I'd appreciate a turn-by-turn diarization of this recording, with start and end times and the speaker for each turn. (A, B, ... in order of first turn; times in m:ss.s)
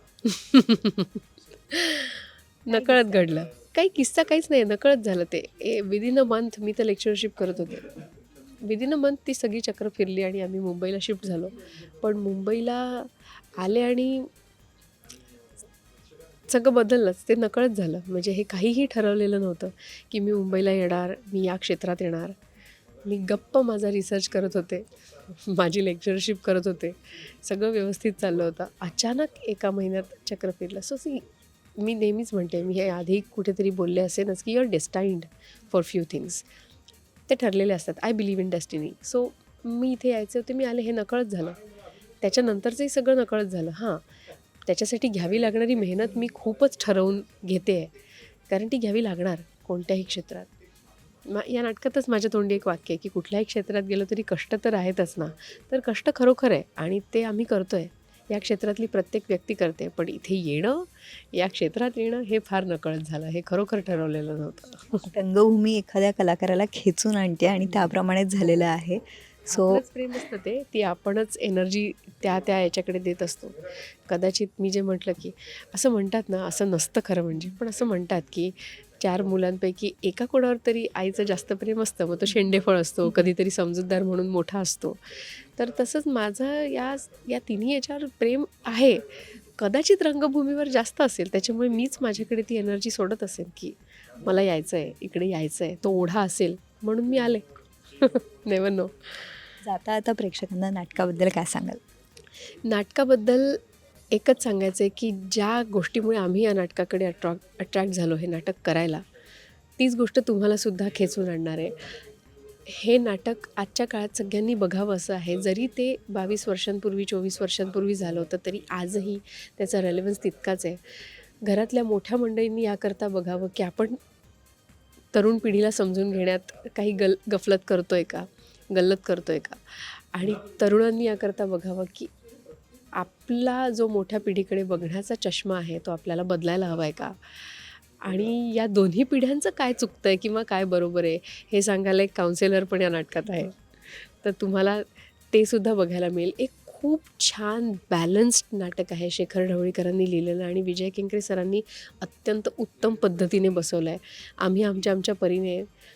0:00.2-0:08.0 A
0:02.7-0:03.2 B
0:08.6-0:14.3 A
0:16.5-0:22.4 A
0:23.0-0:31.2 A
0:31.8-0:36.4 A
0:37.3-0:41.6 A
0:42.2-0:44.0 A
0:44.6-0:47.9 A
0:48.5-0:50.5 A
0:51.3-1:05.1 A
1:05.1-1:09.8 B
1:09.5-1:39.3 A
1:39.6-1:41.8 B
1:42.6-1:43.6 A
1:44.1-1:49.0 A
1:49.8-1:51.8 A
1:52.7-2:04.0 A
2:05.1-2:12.1 A
2:12.9-2:35.7 A